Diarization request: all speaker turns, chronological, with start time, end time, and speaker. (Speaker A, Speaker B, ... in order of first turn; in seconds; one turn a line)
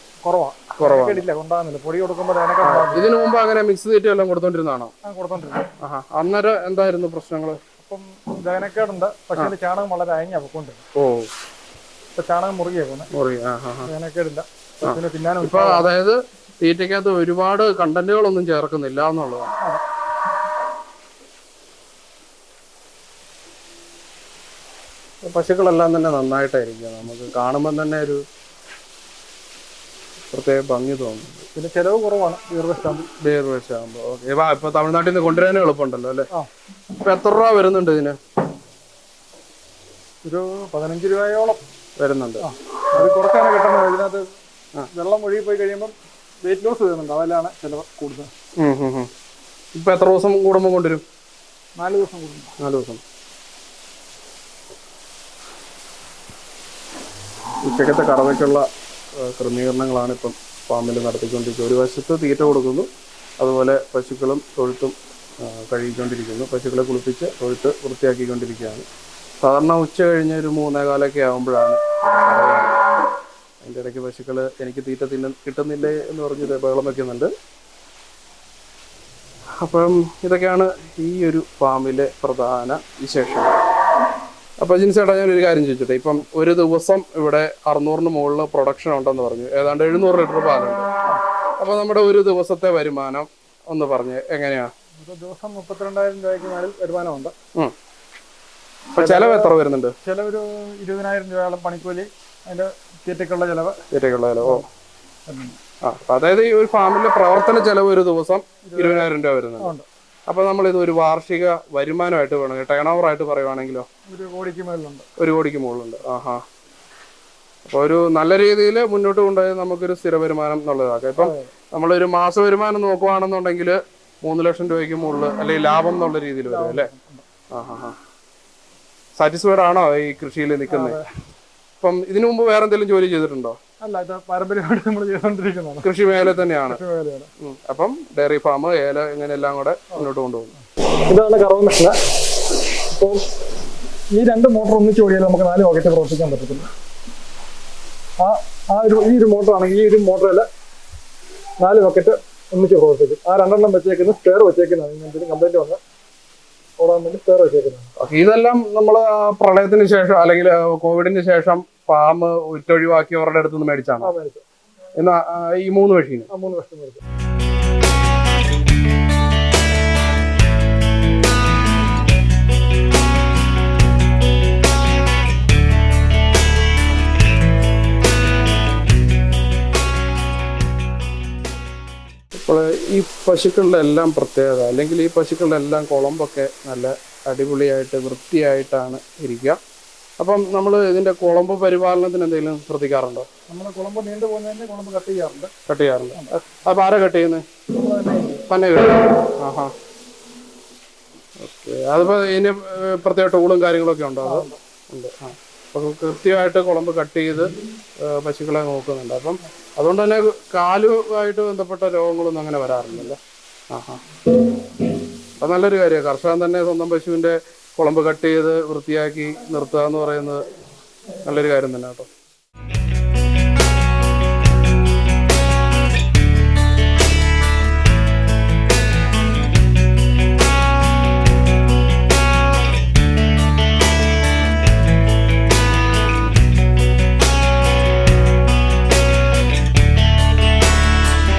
Speaker A: 0.2-3.1
Speaker B: 0.8-1.2
Speaker B: 2.6-4.9
Speaker A: 5.0-5.7
Speaker B: 5.8-7.6
Speaker A: 7.8-10.8
Speaker B: 10.9-11.3
Speaker A: 12.2-13.1
Speaker B: 13.1-13.9
Speaker A: 13.8-15.9
Speaker B: 14.8-19.5
Speaker B: 25.2-28.2
Speaker B: 30.3-31.4
Speaker A: 31.5-33.1
Speaker B: 33.2-36.3
Speaker B: 37.0-38.2
Speaker A: 40.2-41.6
Speaker B: 42.0-42.5
Speaker A: 42.4-44.2
Speaker A: 44.9-45.9
Speaker A: 46.4-48.3
Speaker B: 48.6-49.1
Speaker B: 49.7-51.0
Speaker A: 51.8-52.5
Speaker B: 52.6-53.0
Speaker B: 57.6-62.9
Speaker B: 63.4-68.8
Speaker B: 69.4-72.8
Speaker B: 73.6-77.3
Speaker B: 79.6-83.5
Speaker B: 84.6-90.8
Speaker B: 91.6-94.7
Speaker A: 95.0-97.3
Speaker B: 99.0-99.9
Speaker A: 99.0-103.8
Speaker B: 103.9-104.6
Speaker A: 104.4-104.7
Speaker A: 105.3-105.6
Speaker B: 105.8-109.7
Speaker A: 108.6-109.1
Speaker A: 109.6-109.8
Speaker B: 110.3-113.8
Speaker A: 114.1-115.0
Speaker B: 115.2-116.4
Speaker B: 117.7-126.9
Speaker A: 121.2-121.5
Speaker A: 126.5-127.2
Speaker B: 127.5-128.0
Speaker B: 129.2-131.0
Speaker A: 130.7-131.0
Speaker B: 131.8-133.6
Speaker A: 133.8-135.9
Speaker B: 135.8-136.8
Speaker A: 136.7-137.3
Speaker B: 137.4-140.5
Speaker A: 141.1-141.9
Speaker A: 142.9-143.3
Speaker A: 144.1-146.7
Speaker A: 148.2-150.4
Speaker A: 151.6-155.8
Speaker A: 156.8-157.9
Speaker B: 158.0-164.1
Speaker A: 164.0-164.4
Speaker B: 164.9-166.3
Speaker A: 166.3-167.0
Speaker B: 182.4-189.6
Speaker B: 190.2-193.3
Speaker A: 193.5-195.5
Speaker B: 195.7-197.4
Speaker A: 197.7-198.4
Speaker B: 198.5-199.7
Speaker B: 201.4-213.2
Speaker A: 204.2-204.6
Speaker B: 213.7-214.0
Speaker B: 215.4-220.4
Speaker B: 221.2-222.1